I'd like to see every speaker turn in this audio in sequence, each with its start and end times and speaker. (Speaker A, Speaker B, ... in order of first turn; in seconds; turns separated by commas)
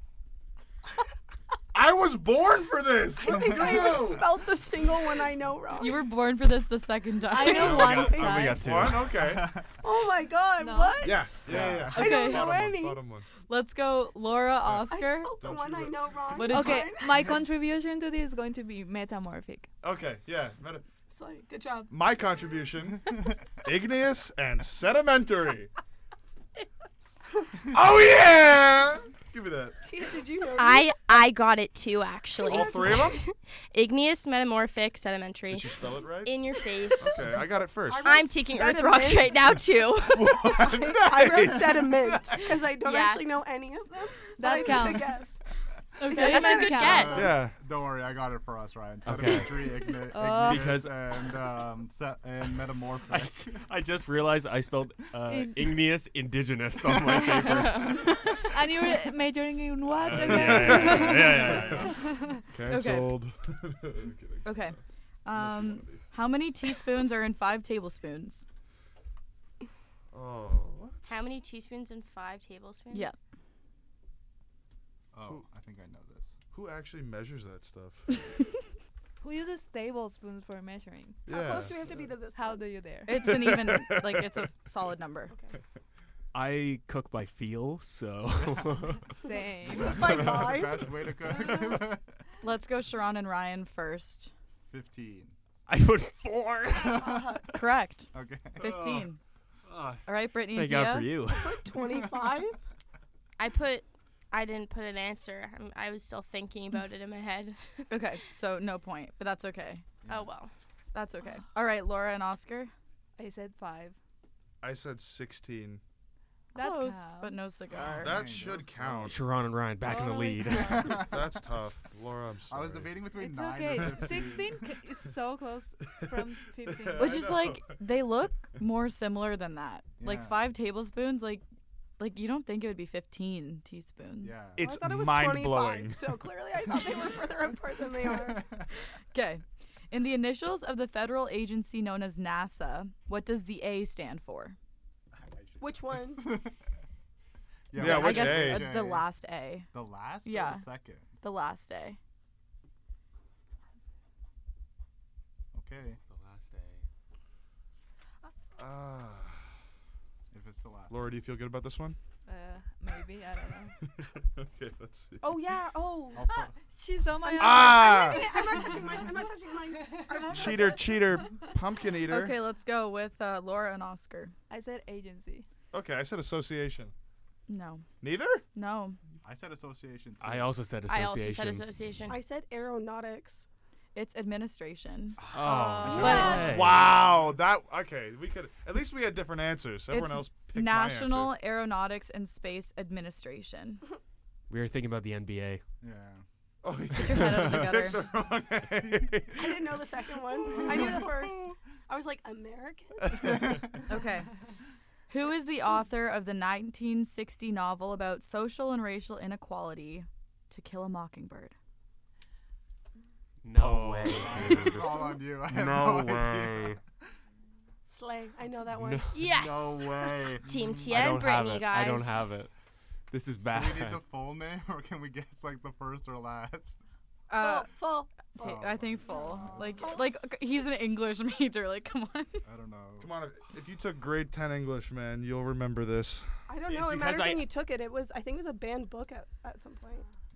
Speaker A: 1.7-4.4, Speaker B: 3.1-6.0, Speaker C: 5.8-8.0, Speaker D: 7.3-8.6, Speaker B: 7.4-8.6, Speaker E: 7.4-9.2, Speaker A: 8.6-9.7, Speaker F: 9.1-9.6, Speaker B: 9.8-11.3, Speaker D: 10.6-11.1, Speaker A: 11.0-13.3, Speaker F: 11.4-12.1, Speaker B: 11.9-13.0, Speaker C: 11.9-12.5, Speaker C: 13.4-15.3, Speaker B: 14.9-17.4, Speaker A: 15.4-15.9, Speaker C: 16.3-16.9, Speaker D: 16.5-19.7, Speaker A: 19.8-20.8, Speaker B: 21.1-21.9, Speaker A: 21.9-25.7, Speaker A: 27.7-29.8, Speaker B: 29.8-31.0, Speaker G: 30.5-37.3, Speaker B: 32.5-33.2, Speaker A: 32.5-33.2, Speaker A: 35.5-36.3, Speaker A: 37.0-38.1, Speaker B: 37.8-39.5, Speaker G: 38.0-40.4, Speaker A: 40.1-42.5, Speaker B: 40.4-45.4, Speaker G: 42.8-43.4, Speaker D: 44.4-45.2, Speaker C: 46.0-47.0, Speaker B: 46.0-47.3, Speaker G: 46.1-47.3, Speaker D: 46.1-47.2, Speaker F: 46.9-53.6, Speaker A: 47.1-47.5, Speaker E: 49.0-51.4, Speaker D: 50.1-50.8, Speaker E: 53.1-58.2, Speaker D: 55.3-55.6, Speaker D: 57.4-62.4, Speaker E: 60.0-62.0, Speaker A: 60.0-64.7, Speaker C: 62.7-63.2, Speaker C: 64.4-68.4, Speaker A: 65.3-66.0, Speaker A: 70.1-71.2, Speaker G: 71.1-73.1, Speaker C: 72.9-73.2, Speaker F: 75.1-76.4, Speaker A: 76.5-78.2, Speaker D: 79.2-81.2, Speaker A: 81.3-81.7, Speaker B: 81.3-82.7, Speaker D: 82.3-83.3, Speaker C: 83.0-85.3, Speaker A: 83.2-84.3, Speaker B: 85.3-85.6, Speaker E: 86.3-89.1, Speaker F: 88.4-88.9, Speaker D: 89.2-90.0, Speaker F: 89.7-92.0, Speaker B: 89.7-90.9, Speaker C: 92.4-94.3, Speaker F: 94.7-95.3, Speaker E: 95.7-97.3, Speaker B: 96.8-97.5, Speaker C: 97.5-99.2, Speaker F: 98.1-98.7, Speaker E: 98.6-99.1, Speaker E: 99.7-101.7, Speaker C: 100.0-101.1, Speaker B: 101.3-102.6, Speaker G: 103.4-107.9, Speaker C: 107.9-109.8, Speaker G: 110.0-110.5, Speaker C: 110.9-112.7, Speaker D: 113.2-114.0, Speaker A: 114.6-115.8, Speaker D: 116.5-117.5, Speaker C: 116.5-118.2, Speaker F: 117.7-119.3, Speaker A: 118.0-119.3, Speaker E: 119.1-121.0, Speaker D: 119.8-121.1, Speaker F: 120.7-120.9, Speaker A: 120.9-123.0, Speaker F: 122.5-124.5, Speaker D: 123.2-127.3, Speaker A: 126.7-127.8, Speaker C: 127.0-131.4, Speaker F: 130.0-130.4, Speaker C: 132.0-134.5, Speaker F: 134.2-134.7, Speaker A: 134.6-136.0, Speaker B: 134.6-138.5, Speaker F: 138.2-138.7, Speaker C: 139.1-144.6, Speaker F: 145.1-146.5, Speaker B: 145.6-146.4, Speaker F: 147.7-149.1, Speaker A: 147.7-148.8, Speaker C: 147.8-149.7, Speaker F: 149.7-151.1, Speaker C: 150.2-150.7, Speaker C: 151.2-152.0, Speaker F: 155.5-156.0, Speaker E: 156.1-156.8, Speaker A: 158.6-159.4, Speaker F: 160.3-161.1, Speaker A: 160.9-162.0, Speaker D: 162.2-163.7, Speaker A: 163.9-165.2, Speaker B: 165.2-166.3, Speaker F: 166.1-166.5, Speaker D: 166.7-168.6, Speaker B: 167.2-171.0, Speaker A: 167.4-168.2, Speaker A: 170.3-172.4, Speaker C: 172.1-174.3, Speaker D: 174.5-175.4, Speaker A: 175.7-176.9, Speaker C: 177.5-177.8, Speaker A: 178.0-178.4, Speaker C: 178.5-179.0, Speaker F: 179.2-180.6, Speaker E: 180.2-181.7, Speaker G: 180.9-182.2, Speaker B: 182.1-183.4, Speaker C: 183.9-185.2, Speaker F: 185.2-187.2, Speaker E: 185.3-186.8, Speaker G: 185.4-186.4, Speaker C: 185.8-186.4, Speaker A: 185.9-191.3, Speaker C: 189.9-193.8, Speaker E: 194.5-195.6, Speaker F: 195.8-196.2, Speaker A: 196.6-199.6, Speaker C: 196.9-198.0, Speaker B: 199.3-203.2, Speaker A: 200.5-201.1, Speaker C: 203.9-204.3, Speaker C: 205.1-211.5, Speaker E: 213.4-216.8, Speaker A: 213.6-214.5, Speaker F: 214.2-216.8, Speaker B: 217.9-219.2, Speaker E: 218.7-222.5, Speaker G: 219.1-222.3, Speaker F: 219.2-221.1, Speaker E: 223.1-224.0, Speaker F: 223.5-226.8, Speaker C: 227.3-232.4, Speaker B: 227.3-228.6, Speaker F: 228.3-229.9, Speaker B: 229.2-230.1, Speaker F: 232.4-233.1, Speaker A: 233.0-236.3, Speaker B: 236.5-240.0, Speaker E: 236.7-237.5